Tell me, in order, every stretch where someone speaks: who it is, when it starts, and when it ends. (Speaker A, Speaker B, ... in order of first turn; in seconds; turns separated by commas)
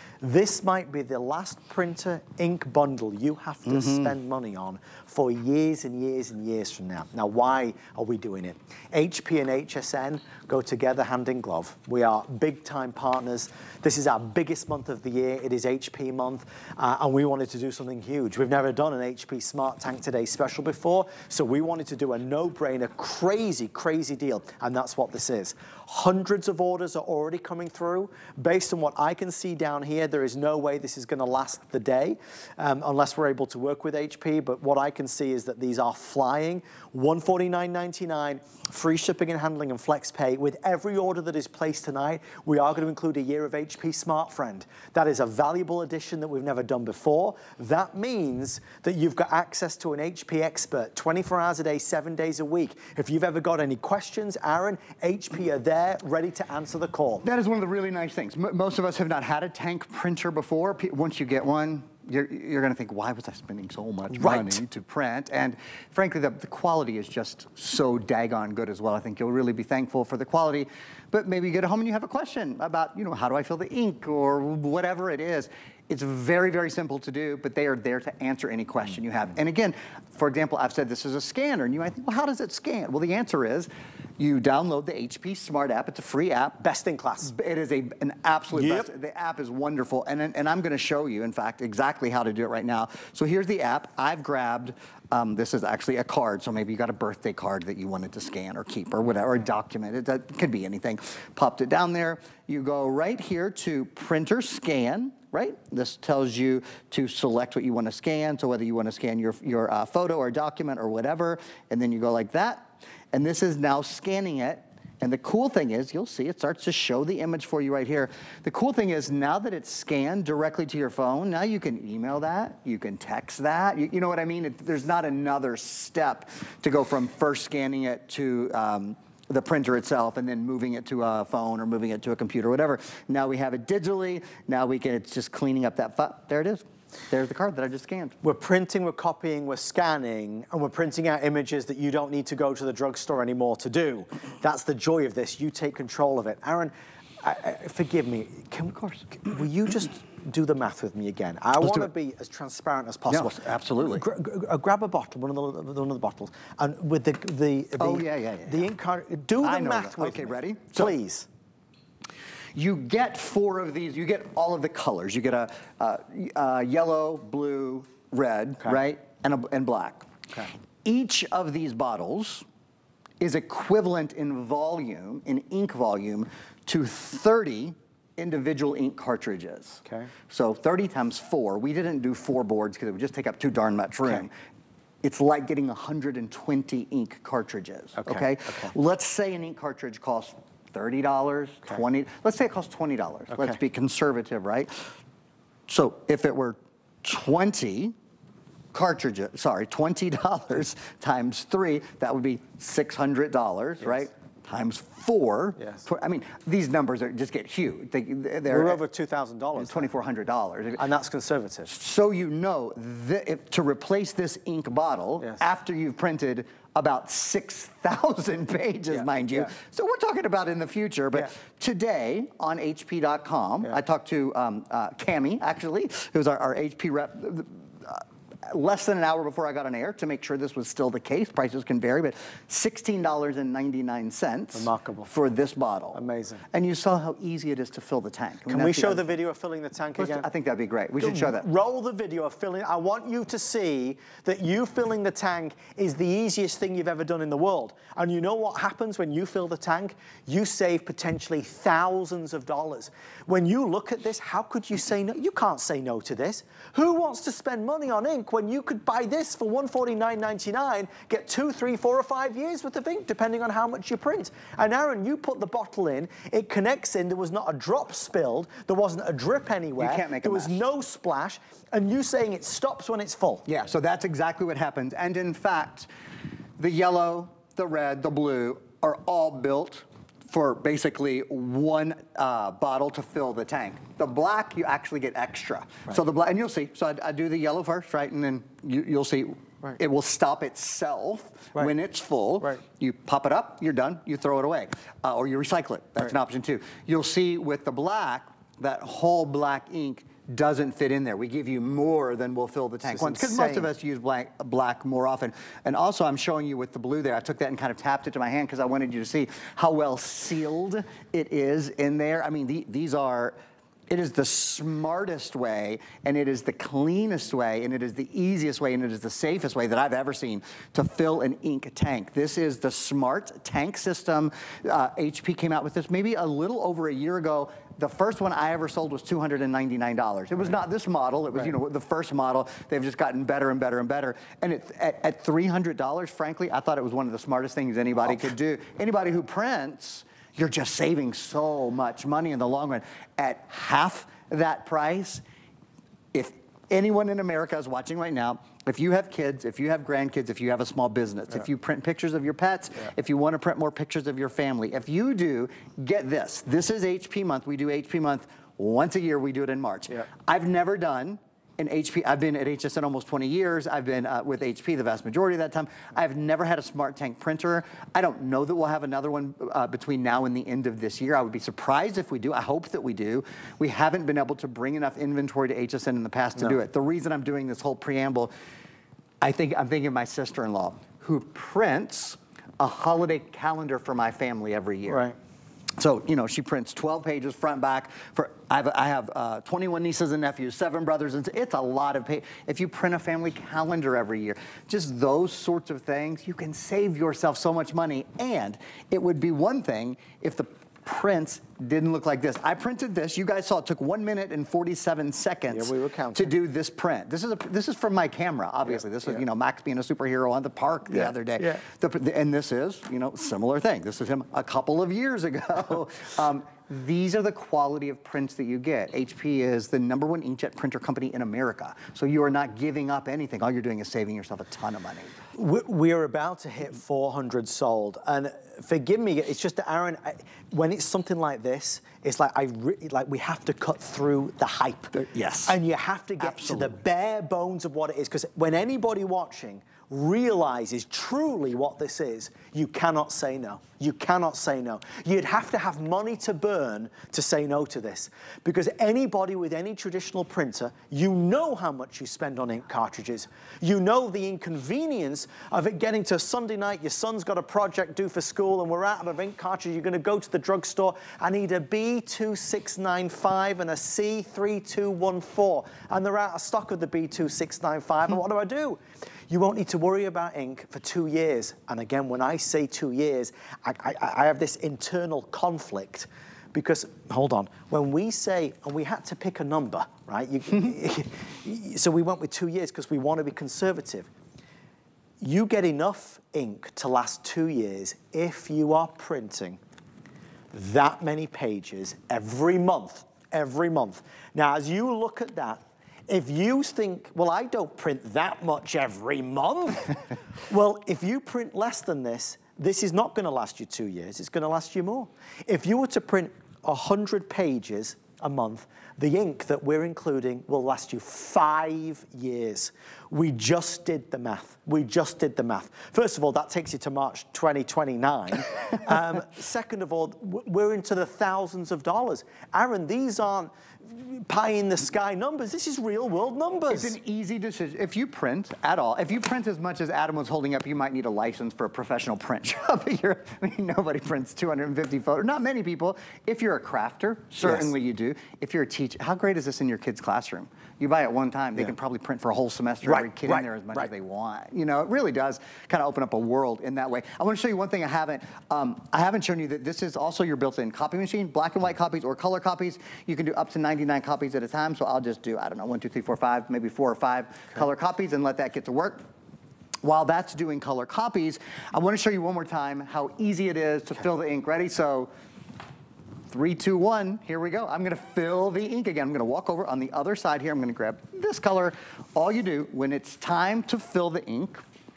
Speaker A: 0.2-57.2, Speaker B: 3.7-4.1, Speaker B: 57.2-86.6, Speaker A: 64.1-64.6, Speaker A: 86.6-87.3, Speaker B: 87.2-138.2, Speaker A: 88.5-88.9, Speaker A: 138.2-161.3, Speaker B: 148.8-149.0, Speaker B: 151.6-151.9, Speaker B: 153.1-154.1, Speaker B: 157.8-158.7, Speaker B: 159.4-161.0, Speaker B: 162.5-170.1, Speaker B: 170.8-172.4, Speaker B: 173.2-184.3, Speaker A: 179.8-180.1, Speaker B: 185.0-194.7, Speaker A: 188.0-188.7, Speaker A: 193.3-193.6, Speaker B: 195.7-197.9, Speaker B: 198.7-208.8, Speaker A: 205.6-205.8, Speaker A: 208.5-209.9, Speaker B: 209.6-210.9, Speaker A: 210.8-211.7, Speaker B: 211.7-236.0, Speaker A: 218.9-219.5, Speaker A: 234.5-235.1, Speaker A: 235.9-236.4, Speaker B: 236.5-239.1, Speaker A: 238.5-240.3, Speaker B: 240.0-241.4, Speaker A: 241.0-273.4, Speaker B: 269.8-270.6, Speaker B: 273.5-275.9, Speaker B: 276.6-313.4, Speaker A: 302.8-303.7, Speaker B: 313.9-345.2, Speaker B: 346.1-378.3, Speaker B: 379.2-385.0, Speaker A: 384.9-385.1, Speaker B: 385.8-425.1, Speaker A: 405.5-406.3, Speaker A: 410.9-411.6, Speaker A: 425.3-484.1, Speaker B: 434.9-435.6, Speaker B: 436.2-436.8, Speaker A: 485.2-489.6, Speaker A: 490.5-527.0, Speaker B: 526.7-559.0, Speaker A: 537.4-537.7, Speaker A: 542.8-543.9, Speaker B: 559.8-565.1, Speaker B: 566.3-574.6